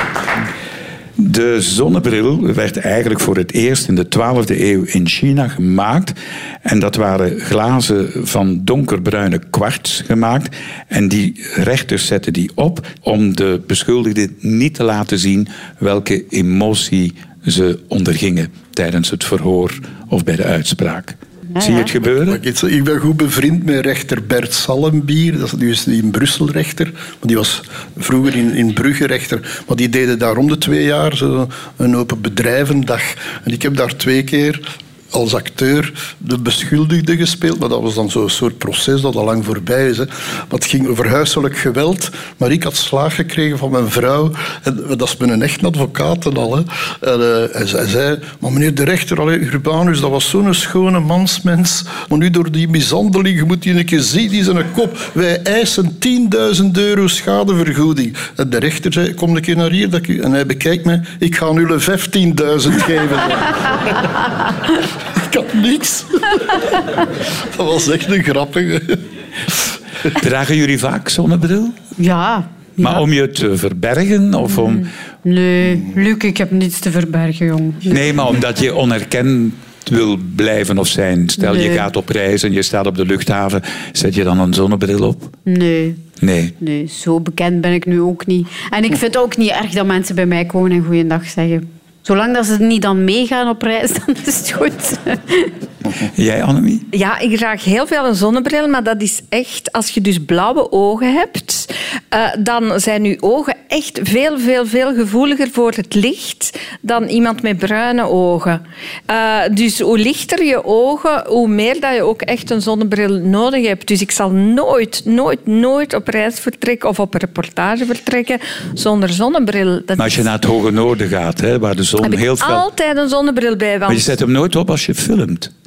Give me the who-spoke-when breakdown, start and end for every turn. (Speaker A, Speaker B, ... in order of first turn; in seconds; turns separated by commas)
Speaker A: 1.2-22.4, Speaker B: 21.5-21.9, Speaker C: 22.1-64.1, Speaker C: 65.1-69.0, Speaker A: 70.1-71.8, Speaker B: 72.0-73.0, Speaker A: 72.8-74.9, Speaker B: 75.2-78.2, Speaker A: 77.9-85.3, Speaker B: 81.4-81.9, Speaker B: 85.5-86.0, Speaker A: 86.2-86.5, Speaker B: 86.6-95.5, Speaker A: 96.0-96.8, Speaker D: 96.9-120.3, Speaker A: 120.0-122.6, Speaker D: 122.0-124.2, Speaker A: 123.9-125.5